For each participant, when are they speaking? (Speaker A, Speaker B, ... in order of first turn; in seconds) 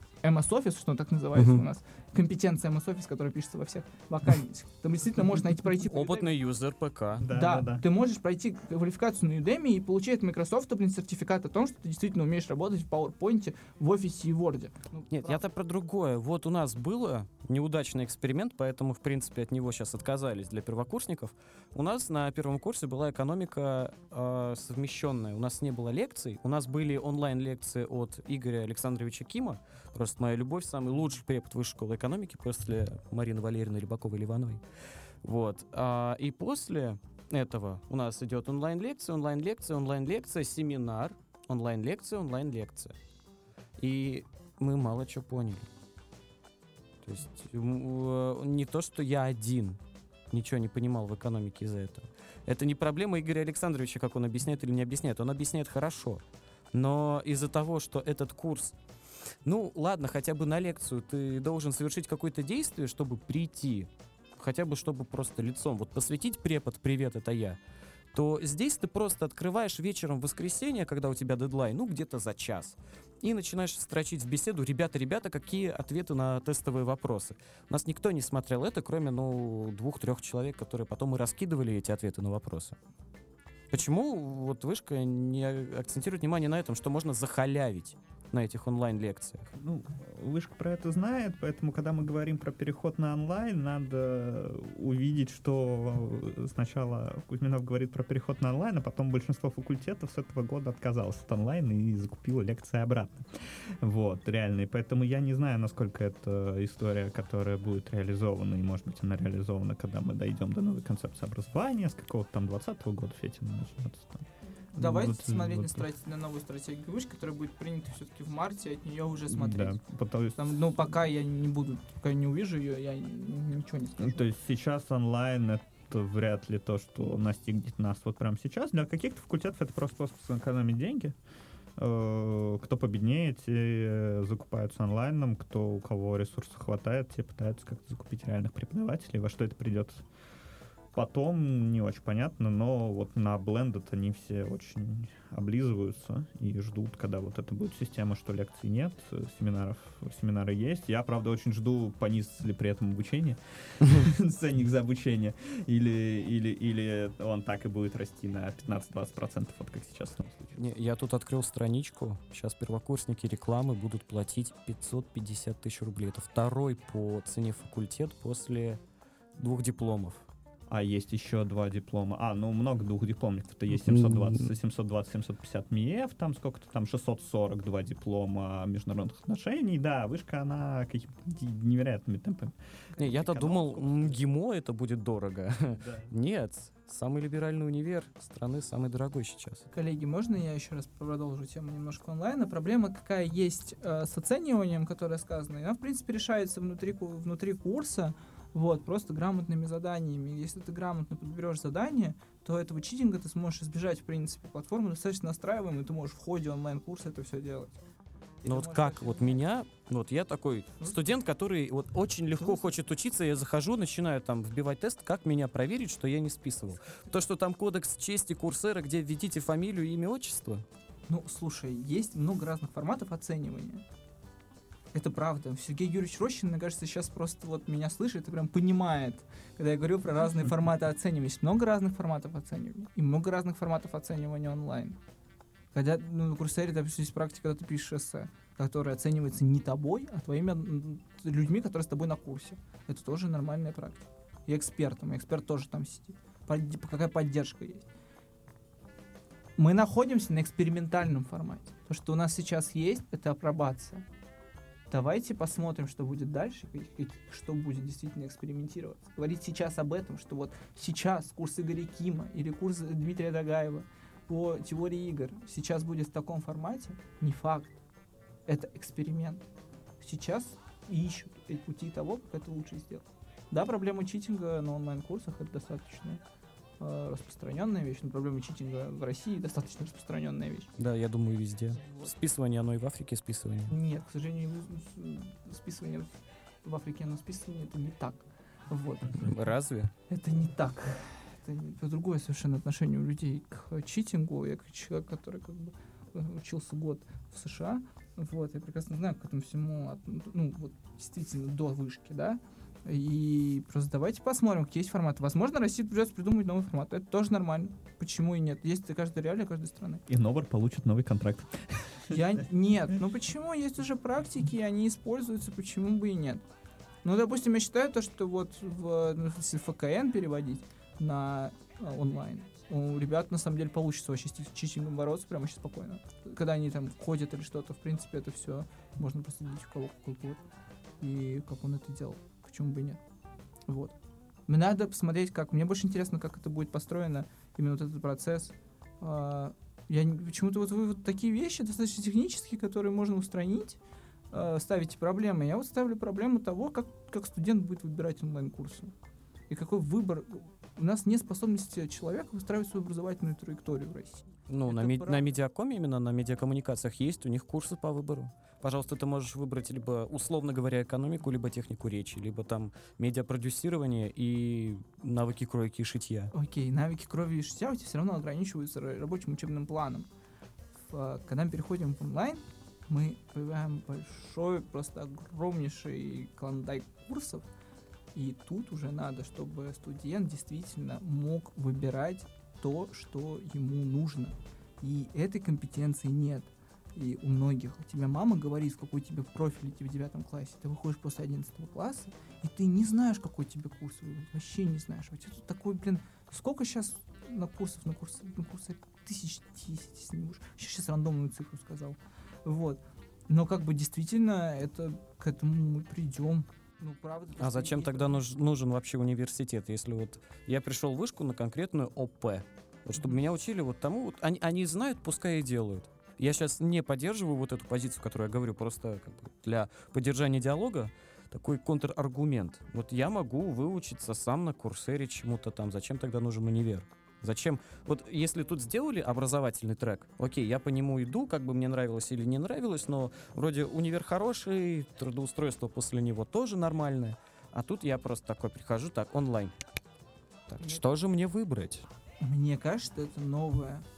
Speaker A: 0.2-6.3, 7.3-15.4, 114.6-119.8, 120.3-124.3, 182.9-183.2, 189.7-207.8, 208.4-209.4, 212.3-212.8, 221.1-223.8, 224.9-235.0, 235.7-247.8, 249.6-254.0, 254.9-267.8, 268.5-269.4, 270.0-276.2, 276.8-280.7, 281.7-282.1, 283.7-289.4, 290.1-310.0, 312.1-316.4, 317.0-330.4, 331.0-333.0, 333.7-333.9, 334.5-343.8, 344.3-348.9, 349.5-355.3, 366.3-370.1, 370.8-377.4, 378.1-408.2, 442.2-443.8
Speaker B: 1.3-1.6, 5.9-7.3, 15.1-34.6, 35.2-43.0, 43.8-45.7, 47.0-49.8, 50.3-56.2, 56.7-58.7, 59.4-67.6, 68.1-82.8, 83.7-89.5, 160.6-168.8, 169.4-170.2, 173.8-174.5, 183.0-189.7, 208.4-220.6, 280.8-283.8, 289.2-289.9, 354.5-366.3, 407.4-439.5, 440.5-441.9
Speaker C: 7.2-7.8, 89.6-103.3, 103.8-115.8, 119.3-121.0, 124.0-131.2, 131.8-140.1, 140.9-160.6, 170.7-184.2, 185.7-186.1, 310.1-312.2